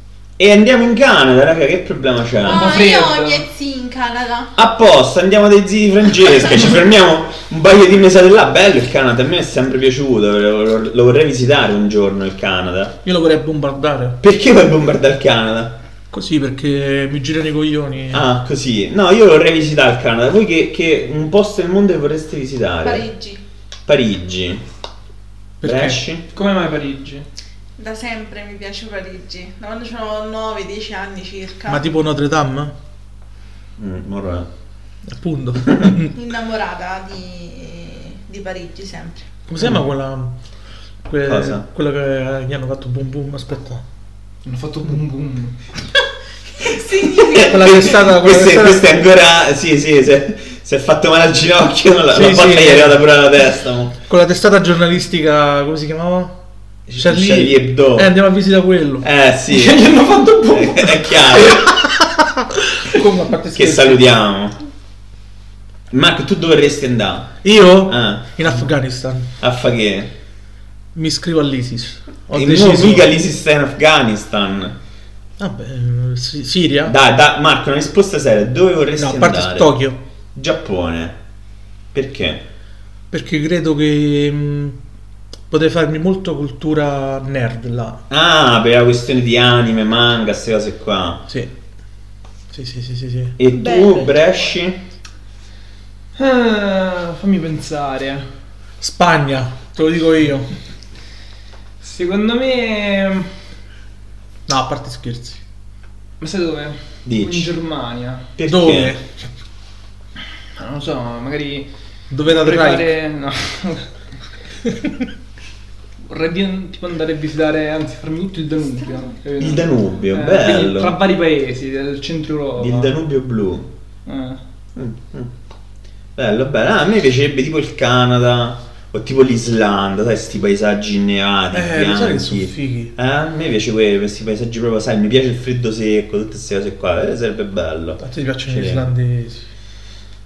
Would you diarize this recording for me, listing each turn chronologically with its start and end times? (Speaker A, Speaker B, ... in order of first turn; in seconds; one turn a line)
Speaker A: 0.4-2.7
Speaker B: 2.5-3.4
Speaker C: 2.5-4.5
Speaker A: 4.6-12.9
Speaker D: 13.0-14.2
Speaker A: 14.2-15.8
Speaker D: 16.1-18.3
Speaker A: 18.1-23.1
Speaker C: 22.8-23.4
Speaker A: 23.9-24.6
Speaker D: 25.6-26.0
Speaker A: 25.6-26.2
Speaker B: 26.3-27.3
Speaker C: 27.8-31.9
Speaker D: 31.7-32.7
Speaker A: 33.8-34.5
Speaker D: 35.1-36.1
Speaker A: 35.6-35.9
Speaker C: 36.1-39.3
Speaker D: 39.5-40.3
Speaker D: 41.0-43.8
Speaker A: 41.3-41.6
Speaker B: 44.5-45.6
Speaker C: 46.6-47.9
Speaker A: 47.2-54.0
Speaker D: 47.5-48.9
Speaker D: 52.1-53.0
Speaker D: 54.1-56.3
Speaker A: 56.9-58.1
Speaker D: 57.0-59.1
Speaker A: 59.0-59.9
Speaker B: 59.5-61.6
Speaker A: 60.5-61.7
Speaker D: 61.6-64.2
Speaker A: 63.5-64.6
Speaker A: 65.9-67.4
Speaker D: 67.4-69.3
Speaker A: 67.9-68.6
Speaker A: 69.4-70.1
Speaker D: 71.0-73.1
Speaker A: 72.3-74.8
Speaker D: 75.4-77.0
Speaker A: 76.9-79.7
Speaker D: 79.0-80.0
Speaker A: 80.3-81.2
Speaker A: 81.9-82.4
Speaker D: 83.1-84.8
Speaker D: 85.5-88.0
Speaker A: 88.1-91.2
Speaker D: 92.5-93.4
Speaker A: 93.4-94.8
Speaker C: 93.5-94.2
Speaker B: 96.2-98.3
Speaker D: 98.8-100.5
Speaker B: 101.8-103.3
Speaker D: 104.5-105.4
Speaker B: 106.2-108.2
Speaker A: 107.0-107.5
Speaker A: 108.4-109.0
Speaker D: 108.5-109.0
Speaker B: 110.6-111.7
Speaker D: 112.1-112.9
Speaker B: 112.3-113.9
Speaker B: 116.1-123.0
Speaker A: 119.4-121.0
Speaker A: 122.6-123.7
Speaker B: 124.1-124.4
Speaker A: 124.8-125.3
Speaker A: 126.2-138.9
Speaker D: 131.5-132.9
Speaker D: 138.0-139.4